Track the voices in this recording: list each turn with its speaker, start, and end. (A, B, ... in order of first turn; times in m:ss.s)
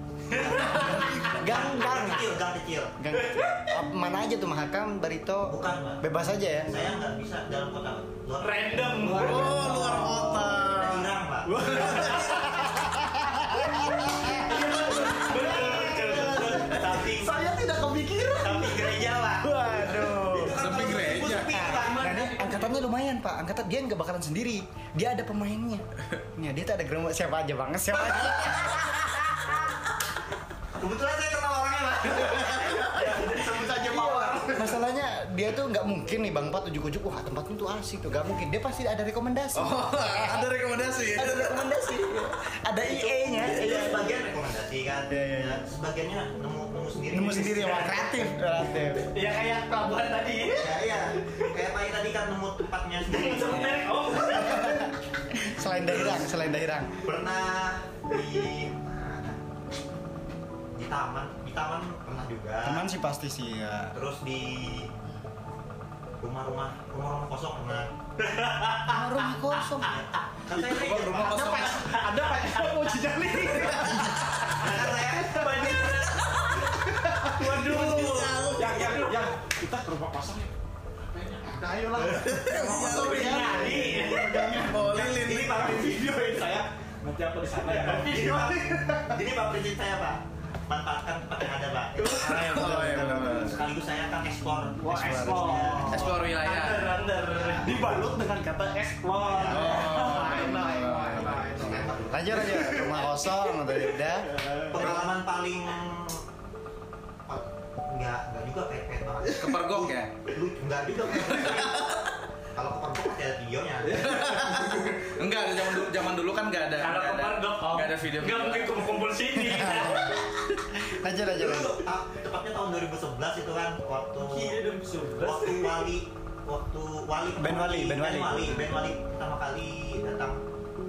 0:00.3-0:03.0 A
0:00.8-0:01.2 B
0:01.2-0:02.3 C
0:03.0-0:06.9 C
0:05.5-0:06.0 A
0:06.7-0:12.2 A
0:08.4-0:09.7 B
0:09.0-0:12.5 D
0:09.0-0:10.3 E
0:11.4-0:12.7 E
0:12.5-0:14.6 C
0:14.2-0:16.6 B
0:14.5-0:18.9 E
0:15.0-0:17.4 A
0:18.4-0:19.5 A
0:19.4-0:20.6 C
0:20.2-0:22.1 A
0:20.6-0:21.6 D
0:20.7-0:21.2 E
0:21.3-0:25.8 C
0:21.5-0:22.8 B
0:26.4-0:29.7 C
0:30.7-0:34.5 A
0:32.2-0:32.9 D
0:33.0-0:34.8 E
0:33.8-0:40.5 C
0:39.6-0:41.9 D
0:41.0-0:44.0 C
0:42.8-0:48.1 A
0:45.1-0:45.6 C
0:47.1-0:49.0 C
0:49.1-0:50.9 B
0:50.5-0:54.7 A
0:53.1-0:54.7 B
0:54.4-0:57.0 C
0:55.9-0:56.3 A
0:57.0-0:59.4 A
1:00.7-1:02.8 A
1:02.6-1:03.9 C
1:03.9-1:04.9 A
1:06.2-1:09.0 A
1:08.9-1:10.0 C
1:09.8-1:11.7 A
1:10.7-1:12.0 D
1:10.9-1:16.1 E
1:13.6-1:14.2 D
1:14.5-1:15.9 A
1:15.4-1:16.6 B
1:16.6-1:20.5 E
1:17.4-1:18.5 A
1:17.4-1:18.0 B
1:17.7-1:19.1 D
1:18.7-1:19.2 B
1:21.1-1:28.4 E
1:22.1-1:25.8 D
1:22.9-1:24.4 B
1:24.8-1:26.0 A
1:27.7-1:28.6 B
1:27.8-1:36.2 A
1:32.0-1:33.6 D
1:32.1-1:33.6 C
1:34.8-1:37.8 B
1:34.8-1:35.9 C
1:35.9-1:37.0 D
1:37.3-1:37.8 A
1:37.6-1:43.1 E
1:39.2-1:39.9 A
1:39.5-1:41.6 D
1:39.8-1:40.8 B
1:41.1-1:44.4 C
1:41.6-1:42.6 A
1:44.2-1:44.9 E
1:44.6-1:46.2 A
1:47.3-1:51.8 A
1:49.3-1:50.1 D
1:51.3-1:52.0 D
1:52.5-1:54.5 A
1:53.8-1:55.2 E
1:53.9-1:58.9 D
1:56.8-2:00.2 B
1:59.4-2:01.8 C
2:01.3-2:04.6 A
2:04.2-2:05.9 B
2:05.2-2:10.4 A
2:07.4-2:08.8 C